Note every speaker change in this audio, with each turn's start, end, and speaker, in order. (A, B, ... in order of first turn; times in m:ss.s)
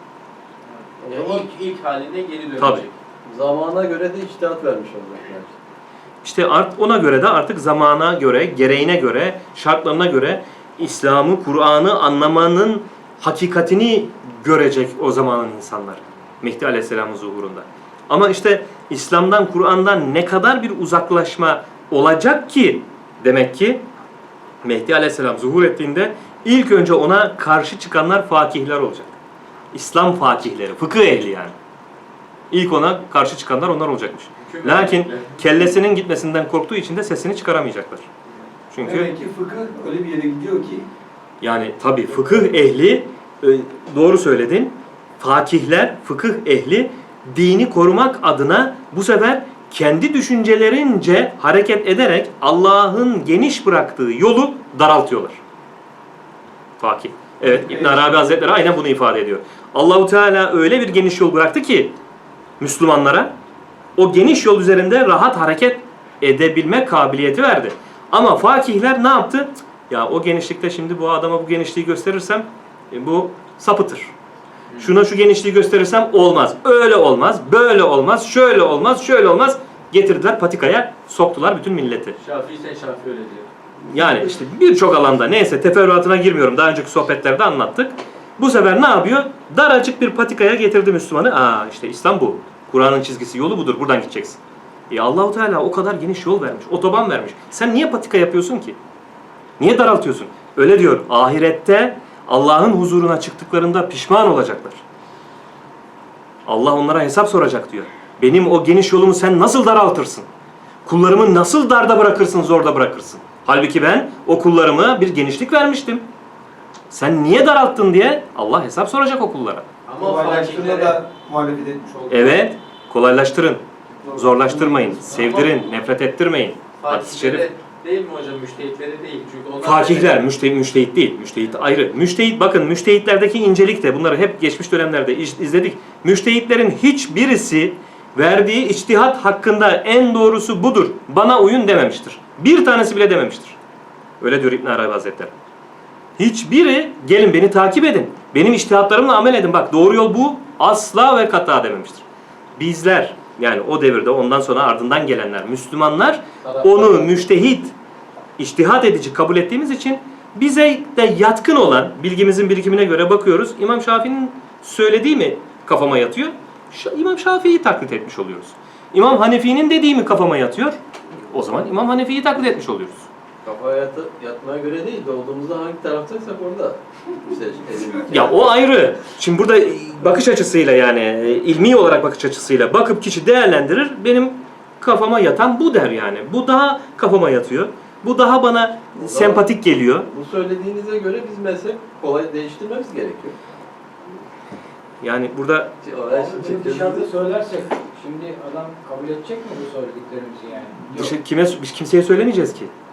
0:01.0-0:01.5 A
0:01.0-0:02.9 B
0:02.6-0:02.8 C
0:03.2-0:05.5 A
0:06.2-0:23.8 C
0:24.6-0:29.1 C
0:29.7-0:31.6 C
0:32.5-0:38.1 C
0:34.4-0:35.4 B
0:38.7-0:39.1 C
0:38.8-0:40.9 D
0:41.4-0:55.4 C
0:56.8-1:01.9 C
1:02.6-1:03.3 C
1:04.0-1:14.1 C
1:14.8-1:22.2 C
1:22.2-1:23.5 B
1:23.8-1:38.8 C
1:39.6-1:44.8 C
1:46.4-1:50.3 C
1:50.8-1:56.0 C
1:56.9-1:59.6 C
1:59.8-2:01.1 B
2:00.0-2:02.4 D
2:02.1-2:07.5 C
2:04.0-2:05.0 D
2:05.1-2:05.5 B
2:06.8-2:10.2 B
2:09.6-2:23.6 C
2:24.2-2:25.3 C
2:26.2-2:32.0 C
2:32.6-2:37.7 C
2:36.4-2:37.2 B
2:38.4-2:53.1 C
2:53.4-2:58.4 A
2:58.1-3:10.1 C
3:09.0-3:13.4 A
3:15.0-3:15.7 C
3:15.8-3:17.1 A
3:16.1-3:21.1 E
3:20.8-3:22.7 C